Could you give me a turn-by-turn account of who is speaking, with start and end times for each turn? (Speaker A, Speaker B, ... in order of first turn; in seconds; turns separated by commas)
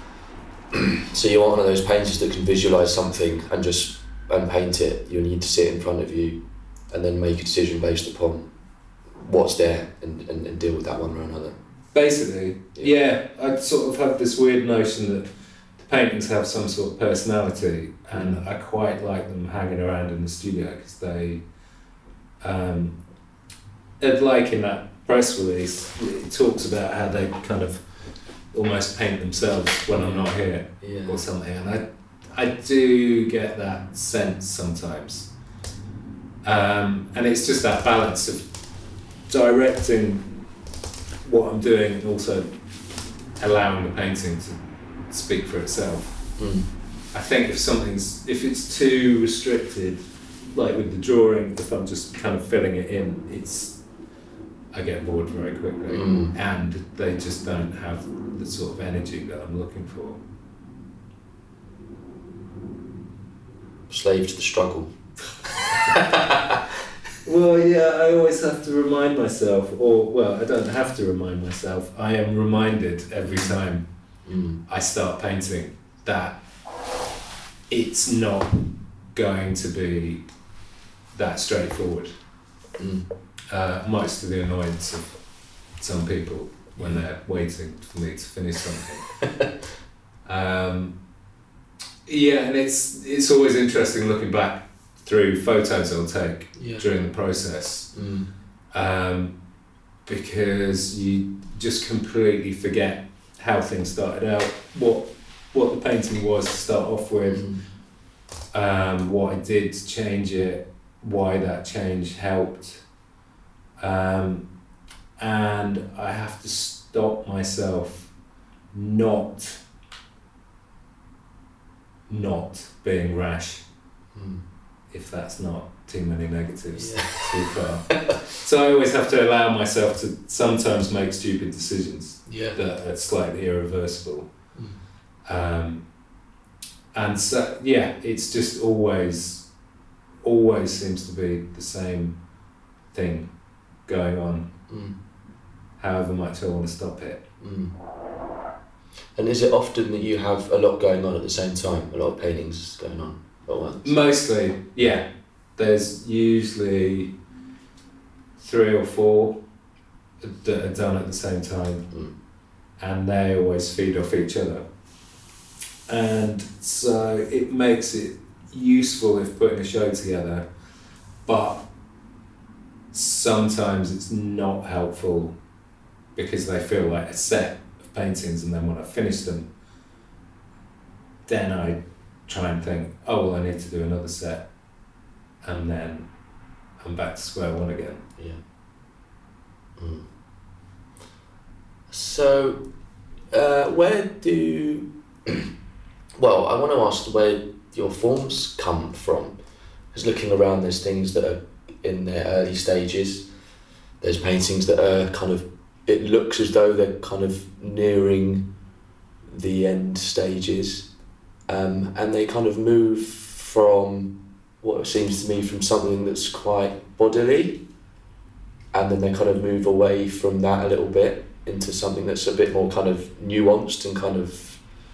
Speaker A: 0.7-6.4, Speaker A: 6.9-8.5, Speaker A: 9.2-11.6, Speaker B: 11.9-15.3, Speaker B: 15.8-21.4, Speaker A: 18.1-18.4, Speaker B: 22.4-22.9, Speaker B: 24.0-27.8, Speaker B: 28.5-35.3, Speaker A: 29.9-31.2, Speaker B: 36.4-38.5, Speaker B: 39.3-40.3, Speaker B: 41.2-42.5, Speaker B: 43.4-44.6, Speaker B: 45.1-46.2, Speaker A: 46.4-46.7, Speaker B: 47.1-50.0, Speaker B: 50.5-53.8, Speaker B: 54.7-60.2, Speaker A: 55.9-56.3, Speaker A: 63.9-64.9, Speaker A: 65.6-66.7, Speaker B: 67.2-73.9, Speaker A: 73.2-73.6, Speaker A: 74.2-74.6, Speaker B: 74.7-76.4, Speaker B: 77.7-78.6, Speaker B: 79.1-80.2, Speaker B: 81.1-82.1, Speaker A: 82.8-83.1, Speaker B: 83.5-85.1, Speaker B: 85.8-89.0, Speaker A: 86.8-87.0, Speaker A: 89.2-89.5, Speaker B: 90.2-90.9, Speaker B: 92.0-97.9, Speaker A: 96.5-96.9, Speaker A: 97.9-98.3, Speaker B: 98.7-99.3, Speaker B: 100.0-107.4, Speaker A: 107.3-107.6, Speaker B: 108.5-112.8, Speaker B: 113.8-114.5, Speaker B: 115.2-118.1, Speaker B: 118.7-119.6, Speaker B: 122.1-123.6, Speaker A: 124.1-124.4, Speaker B: 124.9-134.3, Speaker A: 126.7-127.3, Speaker A: 127.9-128.2, Speaker A: 132.3-132.6, Speaker B: 135.3-135.8, Speaker B: 136.9-139.5, Speaker B: 140.2-142.2, Speaker B: 142.9-143.3, Speaker B: 143.9-144.5, Speaker A: 144.7-144.9, Speaker B: 145.8-147.2, Speaker A: 147.4-147.7, Speaker A: 149.2-153.9, Speaker B: 153.8-157.1, Speaker B: 158.4-159.4, Speaker B: 160.2-161.8, Speaker B: 162.8-164.7, Speaker B: 165.9-170.5, Speaker B: 171.2-171.7, Speaker B: 172.9-175.3, Speaker B: 176.1-179.5, Speaker B: 181.3-184.4, Speaker B: 185.4-186.1, Speaker B: 186.8-188.0, Speaker A: 189.8-190.1, Speaker A: 191.9-192.6, Speaker A: 193.3-195.5, Speaker A: 196.2-199.4, Speaker A: 199.9-203.3, Speaker A: 204.0-208.5, Speaker A: 209.3-210.9, Speaker A: 211.5-217.6, Speaker A: 218.7-224.6